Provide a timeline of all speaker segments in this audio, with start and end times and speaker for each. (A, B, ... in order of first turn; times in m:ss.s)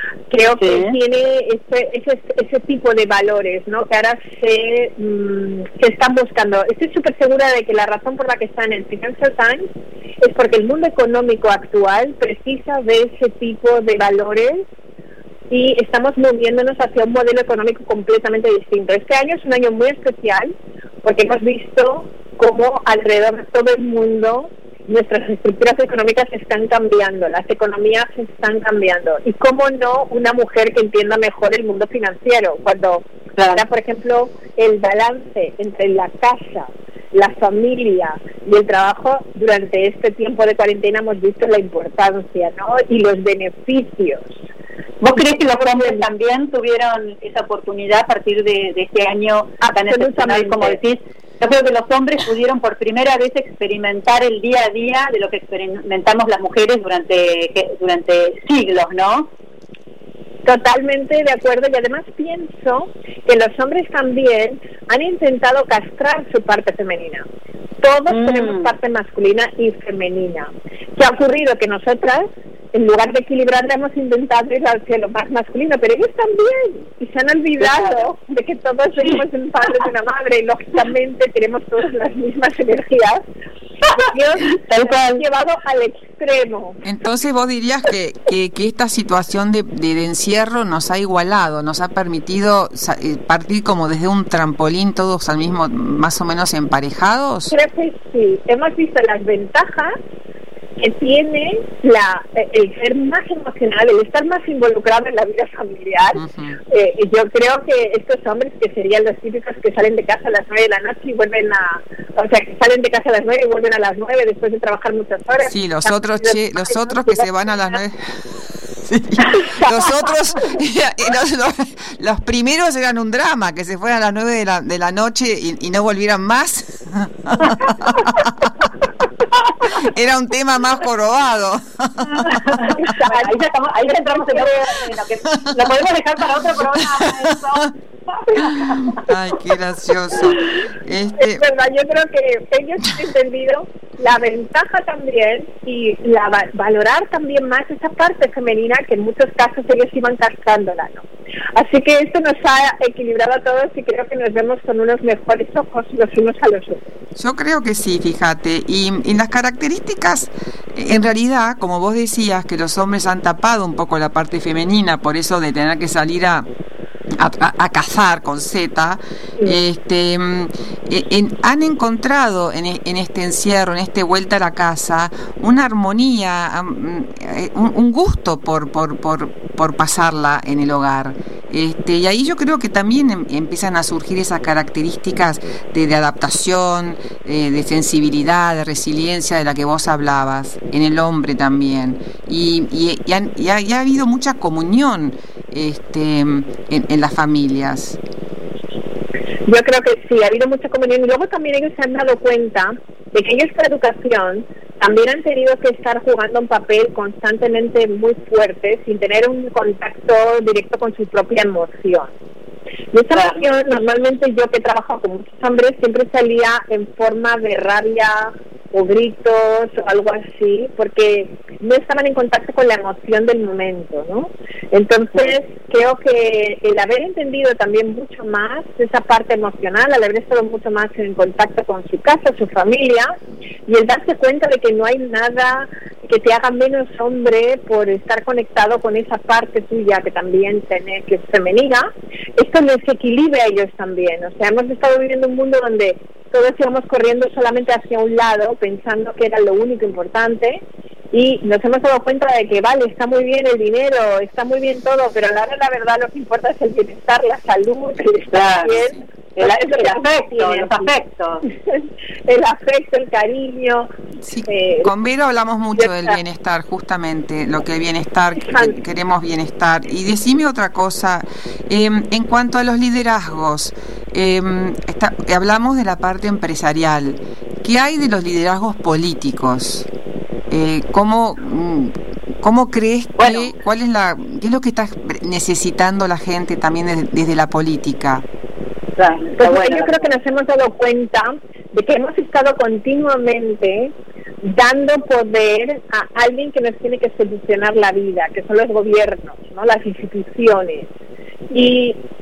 0:00.3-0:09.7 A
0:00.6-0:01.0 B
0:10.2-0:14.7 A
0:15.5-0:44.4 A
0:33.4-0:33.6 B
0:45.0-0:59.3 B
0:45.2-0:46.0 A
0:49.6-0:50.8 A
1:00.4-1:07.2 A
1:07.8-1:23.2 A
1:08.1-1:08.7 B
1:17.6-1:18.0 B
1:24.0-1:26.8 A
1:24.7-1:25.2 B
1:26.8-1:37.5 C
1:37.5-1:40.0 A
1:40.8-1:57.3 A
1:46.2-1:46.6 C
1:55.5-2:08.7 C
2:07.5-2:07.7 B
2:09.7-2:12.7 C
2:12.1-2:19.1 B
2:12.6-2:13.3 A
2:13.9-2:14.8 A
2:15.4-2:15.7 C
2:18.4-2:21.4 C
2:21.2-2:31.0 A
2:31.6-2:36.9 A
2:37.2-2:46.5 C
2:47.2-3:18.0 C
3:19.5-3:32.1 A
3:32.9-4:20.9 A
3:33.1-3:33.4 B
4:18.3-4:18.8 B
4:19.4-4:21.4 B
4:21.5-4:23.9 A
4:24.2-4:39.9 C
4:24.5-4:24.9 A
4:25.8-4:26.2 A
4:28.4-4:28.8 A
4:40.5-4:48.2 C
4:43.2-4:43.5 B
4:49.0-4:50.1 B
4:49.4-5:00.9 A
5:01.5-5:02.0 A